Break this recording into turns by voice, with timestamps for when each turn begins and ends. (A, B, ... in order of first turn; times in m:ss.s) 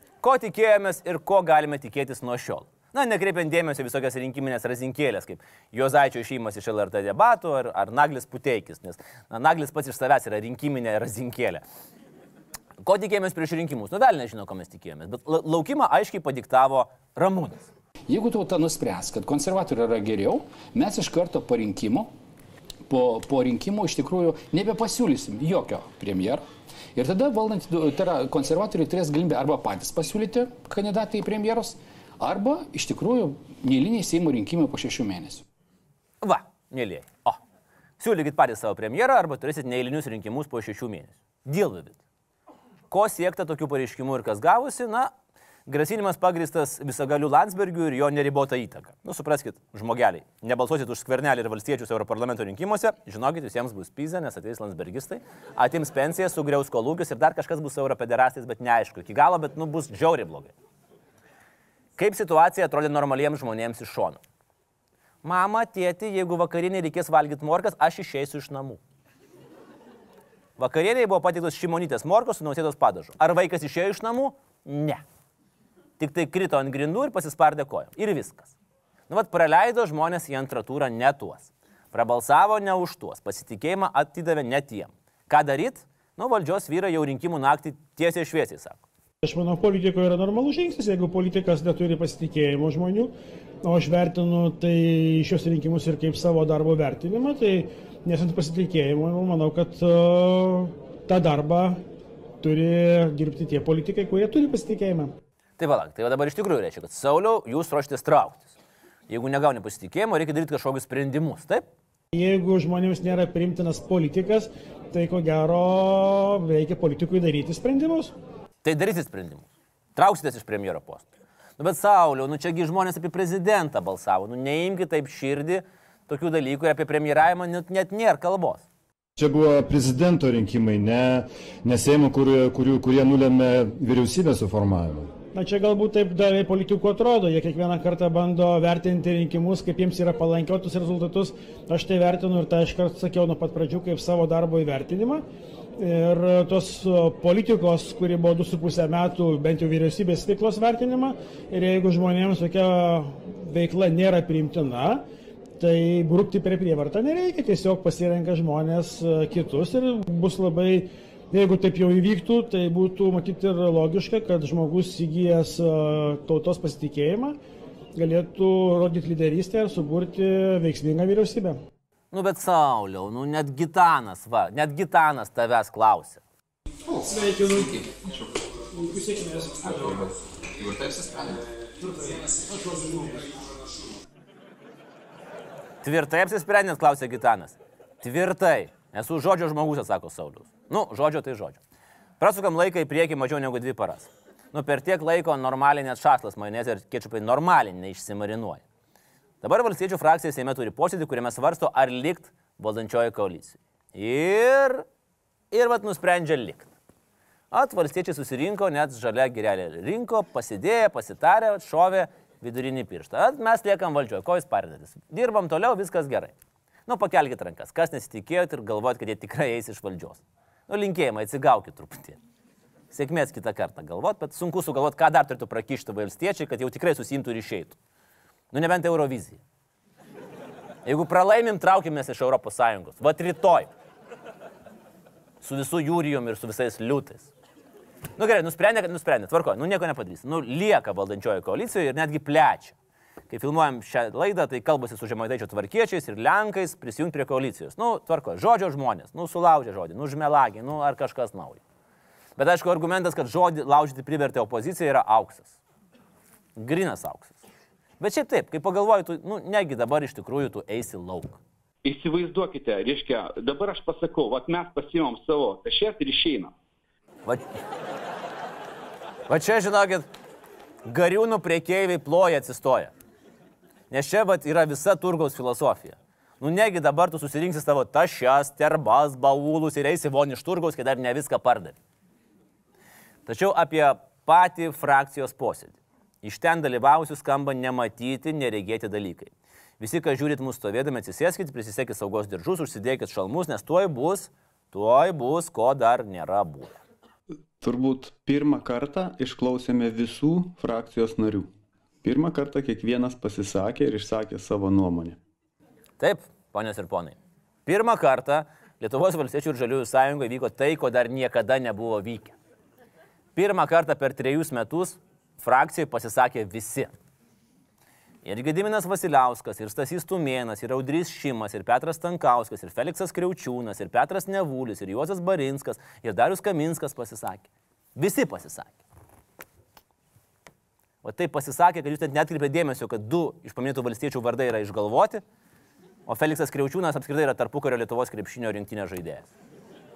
0:00.2-0:11.6 A
0:12.8-0:17.7 A
0:18.1-0:22.1 B
0:22.9-0:26.4 B
0:26.9-0:35.4 B
0:36.2-0:37.4 A
0:38.0-0:42.0 A
0:42.9-0:45.1 A
0:45.7-1:00.5 A
1:02.0-1:04.2 A
1:05.2-1:08.8 A
1:10.6-1:15.0 A
1:16.0-1:18.5 A
1:19.1-1:28.8 A
1:29.2-1:33.1 C
1:33.6-1:41.8 C
1:42.4-1:45.1 C
1:45.6-1:48.5 A
1:49.1-1:51.6 A
1:52.1-1:58.1 C
1:58.6-2:01.1 A
2:01.6-2:08.6 A
2:09.2-2:15.1 D
2:15.3-2:25.2 C
2:25.8-2:35.0 C
2:35.6-2:47.4 C
2:47.9-2:51.6 C
2:52.1-2:56.2 A
2:57.1-2:57.8 C
2:58.7-3:00.0 C
3:05.8-3:11.6 A
3:12.2-3:18.6 A
3:19.4-3:24.8 A
3:25.5-3:26.7 A
3:27.5-3:36.3 A
3:36.9-3:42.2 A
3:42.9-3:47.8 A
3:48.5-3:49.4 A
3:50.8-3:53.7 A
3:55.4-3:57.3 A
3:58.2-4:02.7 A
4:03.3-4:11.6 A
4:12.4-4:15.5 A
4:16.6-4:17.4 A
4:18.0-4:21.4 A
4:21.8-4:26.5 E
4:29.3-4:30.1 A
4:30.8-4:32.9 A
4:33.9-4:41.8 A
4:43.2-4:56.8 A
4:57.6-5:01.5 F
5:02.0-5:05.2 F
5:06.0-5:12.4 A
5:13.4-5:16.9 A
5:18.2-5:28.8 A
5:31.0-5:35.2 A
5:36.1-5:39.3 A